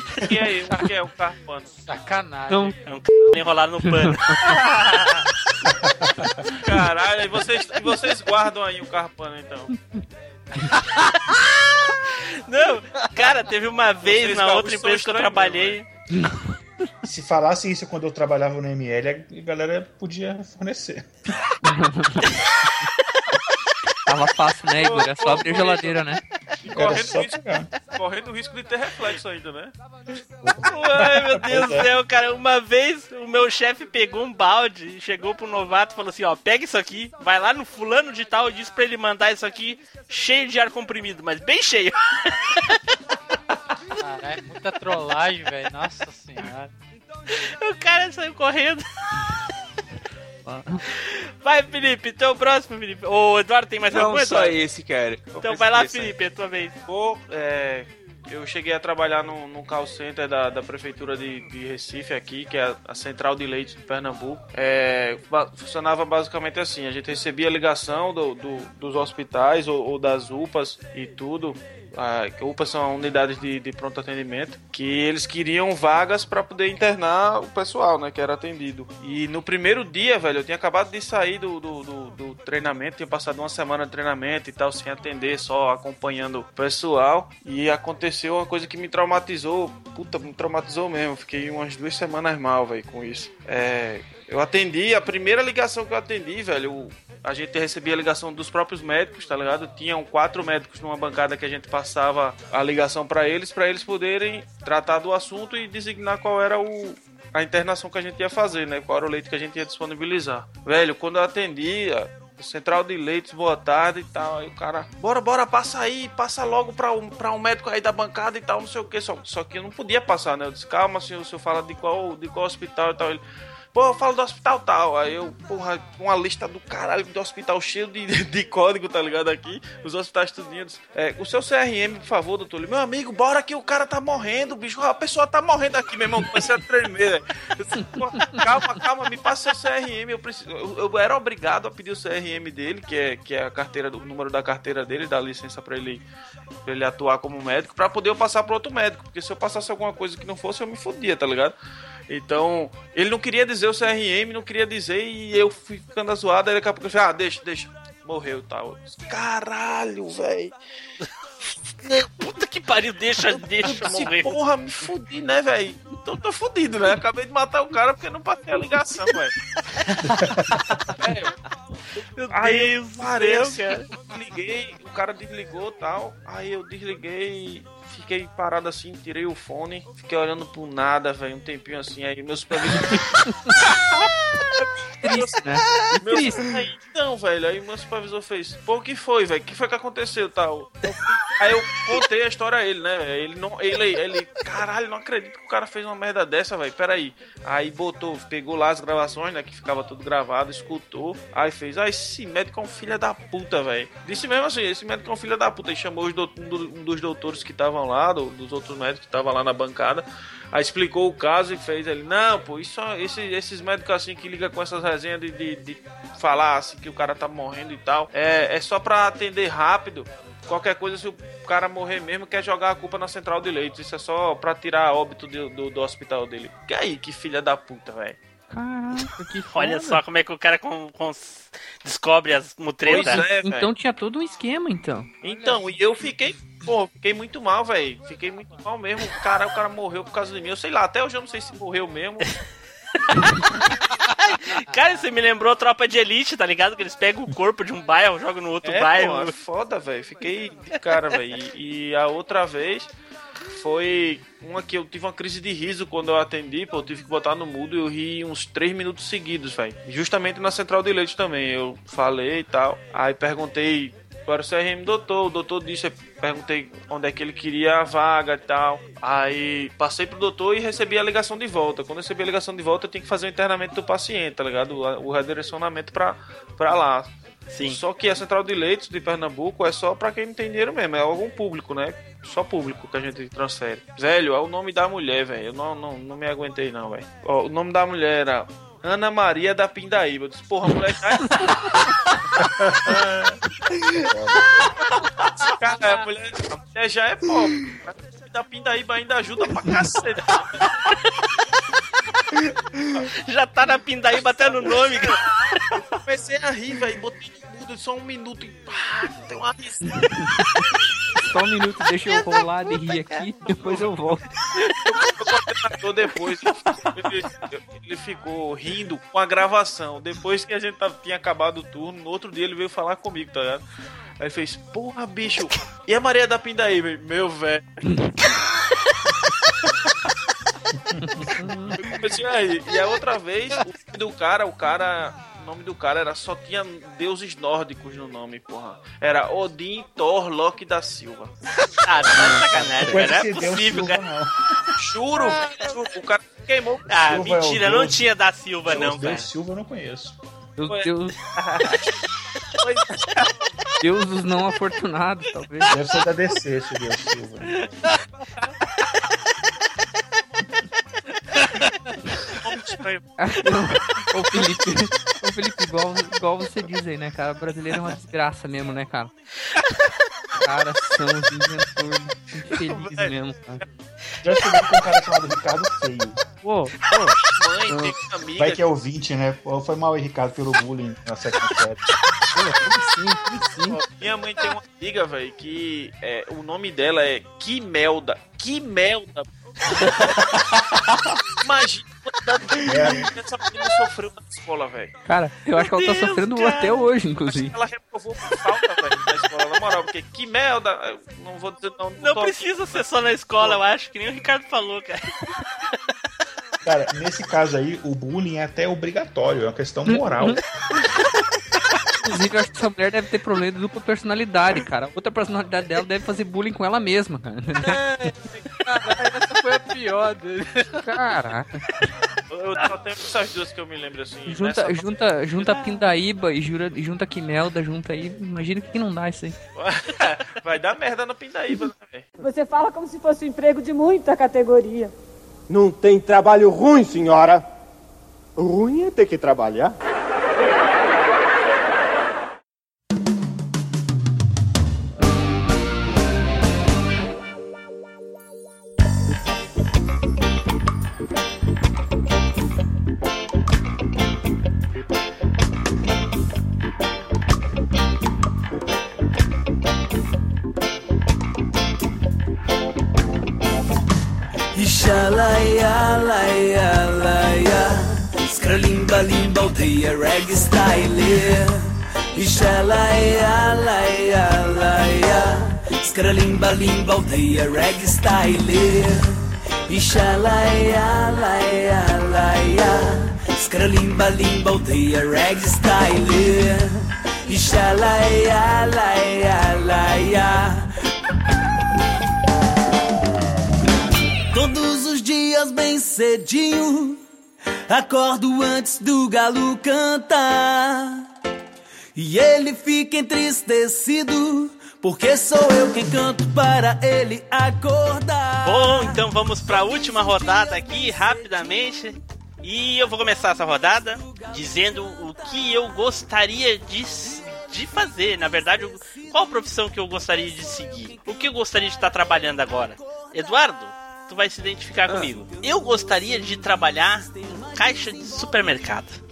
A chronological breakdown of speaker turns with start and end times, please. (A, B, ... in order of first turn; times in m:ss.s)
0:00.2-0:01.8 A
0:01.9-0:02.8 B
0:02.5-0:02.7 C
0:02.9-0:05.1 D
0:04.0-0:04.6 C
0:05.6-0:06.4 E
0:06.6-0:09.7 A
0:12.5-0:15.9 D
0:14.0-0:15.8 A
0:17.0-0:21.2 E
0:21.7-0:22.3 C
0:24.1-0:26.2 C
0:24.8-0:29.7 A
0:26.7-0:27.7 E
0:30.4-0:31.9 E
0:30.6-0:42.8 D
0:44.0-0:46.7 B
0:47.3-0:49.2 D
0:50.5-0:50.8 C
0:50.9-0:54.6 D
0:53.9-0:56.2 F
0:55.4-0:56.8 D
0:56.9-2:03.2 A
2:03.7-2:26.0 A
2:26.6-2:31.6 A
2:32.1-2:40.6 A
2:41.8-2:44.4 D
2:43.3-2:49.3 A
2:50.1-2:50.6 E
2:51.0-2:51.3 A
2:52.0-2:53.9 D
2:52.3-3:03.2 A
3:05.0-3:06.4 C
3:05.0-3:48.2 A
3:48.5-3:50.0 C
3:49.5-3:53.2 D
3:52.8-3:53.7 A
3:52.9-3:55.1 C
3:55.2-4:02.2 A
4:04.0-4:09.4 D
4:08.6-4:12.9 A
4:13.5-4:51.8 A
4:37.5-4:37.8 D
4:52.4-4:53.4 E
4:54.0-4:54.5 E
4:55.4-5:00.7 A
5:03.2-5:05.2 D
5:04.2-5:05.2 A
5:05.8-5:09.9 A
5:11.2-5:14.2 C
5:13.6-5:13.9 A
5:14.9-5:23.6 A
5:24.2-5:27.8 A
5:31.4-5:31.8 C
5:31.8-5:41.4 A
5:41.8-5:44.0 D
5:42.2-5:44.4 E
5:44.8-5:46.9 A
5:46.9-5:48.1 E
5:46.9-5:49.3 D
5:48.7-5:50.2 E
5:50.6-5:51.2 C
5:50.7-5:51.8 A
5:52.6-5:53.2 A
5:53.8-5:55.8 C
5:55.7-5:57.5 E
6:02.4-6:03.0 A
6:03.2-6:09.1 C
6:10.4-6:13.6 C
6:12.6-6:13.1 A
6:14.2-6:16.3 E
6:16.4-6:17.1 C
6:17.3-6:18.6 A
6:17.7-6:17.9 C
6:18.4-6:21.9 E
6:22.4-6:23.8 C
6:23.7-6:29.3 A
6:31.4-6:35.0 A
6:32.6-6:33.1 E
6:35.1-6:37.6 C
6:35.6-6:36.8 D
6:37.3-6:42.8 A
6:38.3-6:38.7 D
6:42.0-6:45.8 D
6:46.6-6:50.4 E
6:49.9-6:50.4 C
6:52.0-6:57.8 C
6:57.6-7:00.8 B
7:00.8-7:01.7 C
7:02.3-7:05.9 A
7:04.3-7:09.4 C
7:09.6-7:12.1 A
7:12.2-7:14.9 G
7:15.5-7:17.4 H
7:18.4-7:19.8 H
7:44.5-8:10.7 I
8:14.3-8:17.0 I
8:17.7-8:21.0 I
8:22.0-8:28.9 I
8:28.4-8:49.0 D
8:44.9-8:45.2 F